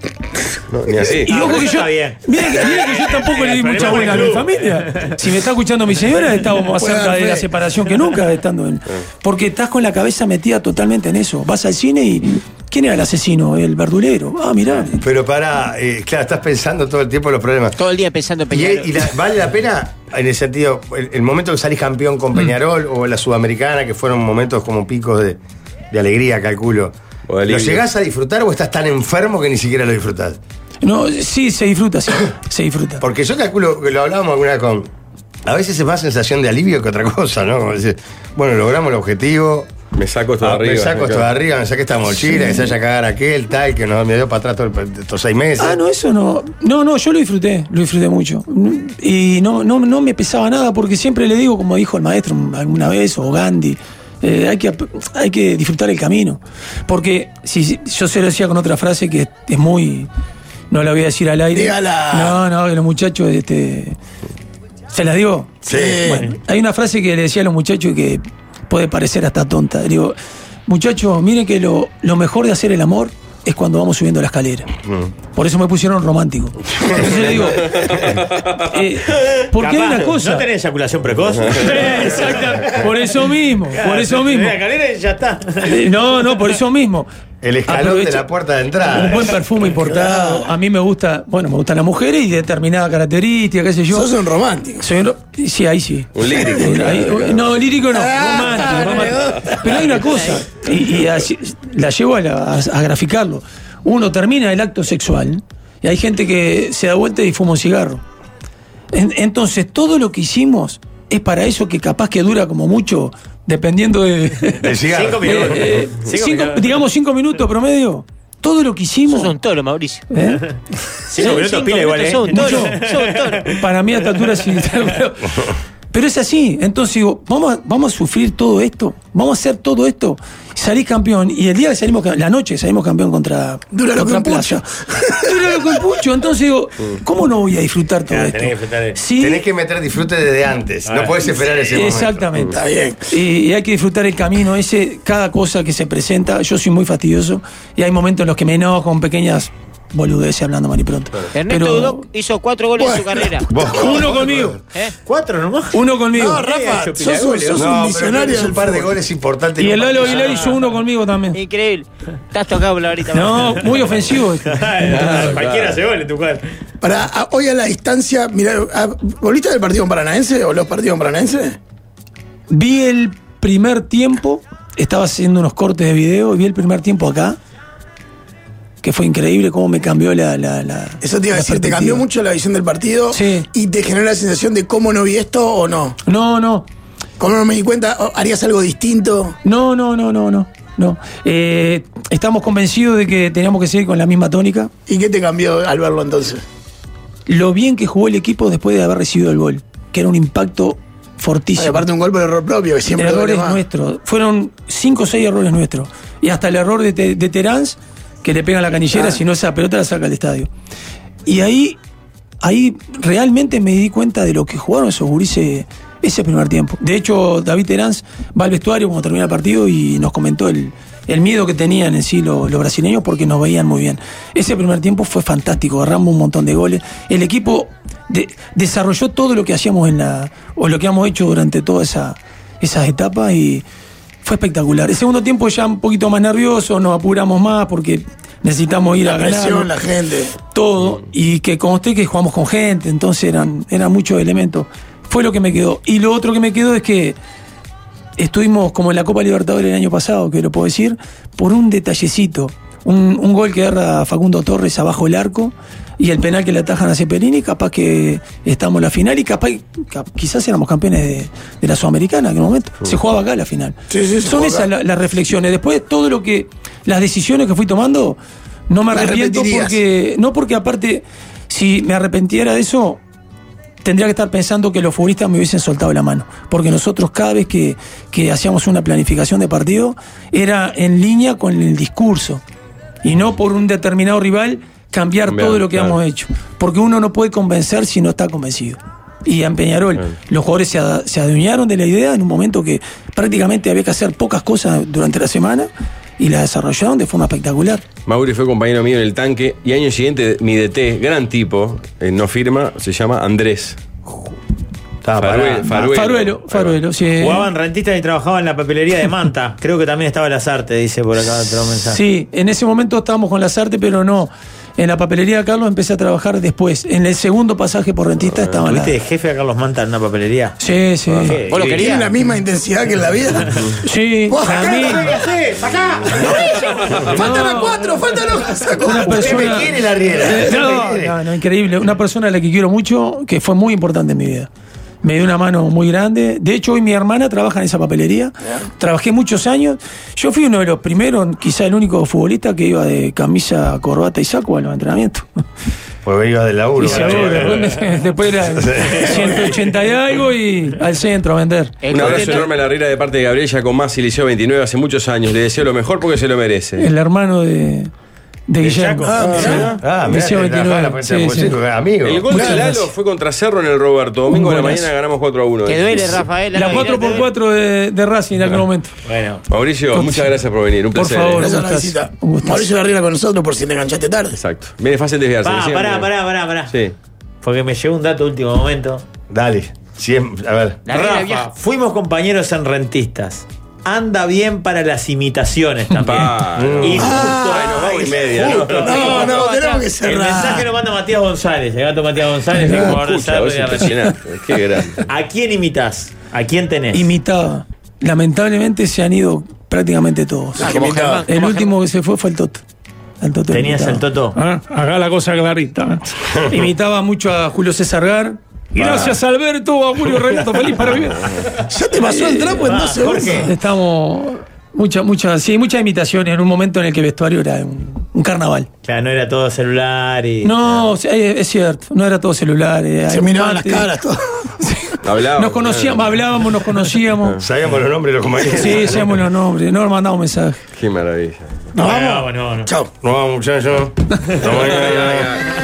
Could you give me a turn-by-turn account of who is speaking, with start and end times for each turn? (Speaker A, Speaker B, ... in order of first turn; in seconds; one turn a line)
Speaker A: 0.7-1.3
Speaker B: 1.2-15.0
Speaker C: 1.3-5.1
Speaker D: 6.8-7.5
Speaker E: 15.0-17.8
Speaker F: 17.8-19.1
Speaker E: 18.5-25.4
Speaker E: 25.9-26.9
Speaker A: 27.3-27.8
Speaker E: 27.4-30.4
Speaker B: 30.8-33.0
Speaker E: 33.0-34.9
Speaker E: 35.4-39.7
Speaker A: 39.9-41.3
Speaker E: 40.4-45.8
Speaker B: 42.2-42.7
Speaker B: 45.6-60.1
Speaker B: 60.7-64.0
Speaker D: 61.5-62.4
Speaker B: 64.9-70.2
Speaker D: 65.7-66.3
Speaker E: 65.7-66.0
Speaker B: 70.7-74.7
Speaker B: 75.3-77.8
Speaker E: 76.9-77.2
Speaker A: 77.7-78.5
Speaker B: 78.6-80.5
Speaker C: 79.1-82.8
Speaker B: 81.6-84.6
Speaker C: 83.7-85.9
Speaker B: 85.6-87.1
Speaker E: 87.4-89.3
Speaker B: 87.7-94.1
Speaker D: 89.8-90.5
Speaker D: 93.9-94.9
Speaker B: 94.8-108.0
Speaker A: 96.1-97.6
Speaker D: 96.5-96.9
Speaker D: 97.9-99.6
Speaker B: 108.9-119.3
Speaker E: 114.6-115.6
Speaker C: 114.9-116.7
Speaker F: 119.1-120.0
Speaker B: 120.1-120.4
Speaker C: 121.0-123.5
Speaker F: 121.2-123.5
Speaker B: 121.2-121.5
Speaker B: 122.3-122.8
Speaker B: 123.5-139.4
Speaker D: 133.7-135.7
Speaker C: 138.1-138.9
Speaker E: 139.2-142.2
Speaker C: 140.8-141.7
Speaker B: 141.7-142.6
Speaker D: 142.5-143.0
Speaker B: 143.1-152.1
Speaker F: 151.3-153.8
Speaker D: 152.8-153.9
Speaker E: 153.5-154.6
Speaker B: 153.7-154.6
Speaker F: 154.6-154.9
Speaker C: 155.0-155.8
Speaker B: 155.7-156.4
Speaker D: 156.1-158.9
Speaker C: 156.3-157.7
Speaker E: 157.5-160.3
Speaker B: 159.6-161.4
Speaker C: 160.0-160.5
Speaker F: 161.3-163.8
Speaker B: 163.1-165.4
Speaker C: 164.4-166.4
Speaker A: 164.8-165.8
Speaker D: 166.8-171.6
Speaker B: 172.5-177.4
Speaker B: 178.8-182.0
Speaker D: 181.0-185.9
Speaker B: 183.1-183.5
Speaker B: 186.0-186.7
Speaker D: 187.2-189.3
Speaker B: 189.4-194.7
Speaker D: 194.9-196.4
Speaker B: 197.3-201.8
Speaker D: 201.6-203.6
Speaker B: 202.9-210.5
Speaker B: 211.2-211.8
Speaker B: 212.4-233.6
Speaker B: 234.2-239.7
Speaker D: 239.0-240.4
Speaker B: 240.4-247.2
Speaker B: 248.2-268.2
Speaker D: 263.9-264.7
Speaker B: 268.7-273.0
Speaker D: 268.9-269.8
Speaker B: 273.8-282.4
Speaker B: 283.0-297.9
Speaker A: 285.3-286.0
Speaker A: 298.0-303.8
Speaker E: 305.0-305.9
Speaker A: 305.2-306.8
Speaker B: 305.8-307.5
Speaker C: 307.2-312.0
Speaker B: 311.8-318.9
Speaker C: 318.6-320.6
Speaker B: 320.6-321.6
Speaker A: 321.1-321.4
Speaker C: 321.2-321.9
Speaker F: 321.5-322.1
Speaker D: 321.7-323.7
Speaker B: 323.8-325.2
Speaker D: 324.3-324.9
Speaker C: 324.4-327.0
Speaker D: 326.1-329.6
Speaker A: 326.9-327.1
Speaker B: 327.1-328.1
Speaker B: 328.8-334.5
Speaker E: 329.1-331.1
Speaker B: 335.0-345.2
Speaker E: 346.0-347.6
Speaker B: 346.8-351.9
Speaker C: 346.8-347.8
Speaker E: 348.6-349.0
Speaker C: 348.8-349.5
Speaker F: 351.8-352.6
Speaker A: 351.9-356.9
Speaker B: 356.8-357.9
Speaker B: 358.5-361.6
Speaker C: 358.6-359.6
Speaker D: 359.1-359.7
Speaker A: 359.3-359.8
Speaker E: 359.8-362.3
Speaker A: 362.0-366.3
Speaker D: 362.3-362.7
Speaker B: 362.3-362.9
Speaker B: 364.3-364.9
Speaker F: 365.6-367.3
Speaker B: 366.5-368.9
Speaker C: 369.1-369.4
Speaker A: 369.5-371.4
Speaker B: 369.9-370.4
Speaker B: 370.9-372.7
Speaker D: 371.3-374.4
Speaker A: 374.4-376.1
Speaker C: 375.4-376.7
Speaker A: 376.7-376.9
Speaker C: 377.4-379.0
Speaker E: 379.3-380.8
Speaker F: 380.9-381.5
Speaker C: 380.9-389.3
Speaker A: 386.0-389.0
Speaker E: 386.5-387.1
Speaker D: 386.9-390.7
Speaker F: 388.8-389.9
Speaker C: 390.0-393.9
Speaker B: 392.5-393.0
Speaker A: 392.6-395.0
Speaker B: 393.8-394.1
Speaker C: 395.0-397.1
Speaker B: 396.9-400.8
Speaker D: 400.6-401.2
Speaker F: 400.6-401.7
Speaker B: 401.3-402.6
Speaker B: 403.2-412.7
Speaker C: 403.5-404.4
Speaker D: 411.7-413.5
Speaker C: 412.6-413.5
Speaker B: 413.4-418.7
Speaker C: 418.8-420.9
Speaker B: 420.4-423.9
Speaker D: 423.1-424.2
Speaker B: 424.6-427.4
Speaker A: 425.0-426.1
Speaker E: 427.4-429.0
Speaker B: 428.4-430.6
Speaker A: 430.7-431.6
Speaker D: 431.7-432.9
Speaker C: 431.8-432.7
Speaker E: 433.0-435.3
Speaker A: 434.4-435.4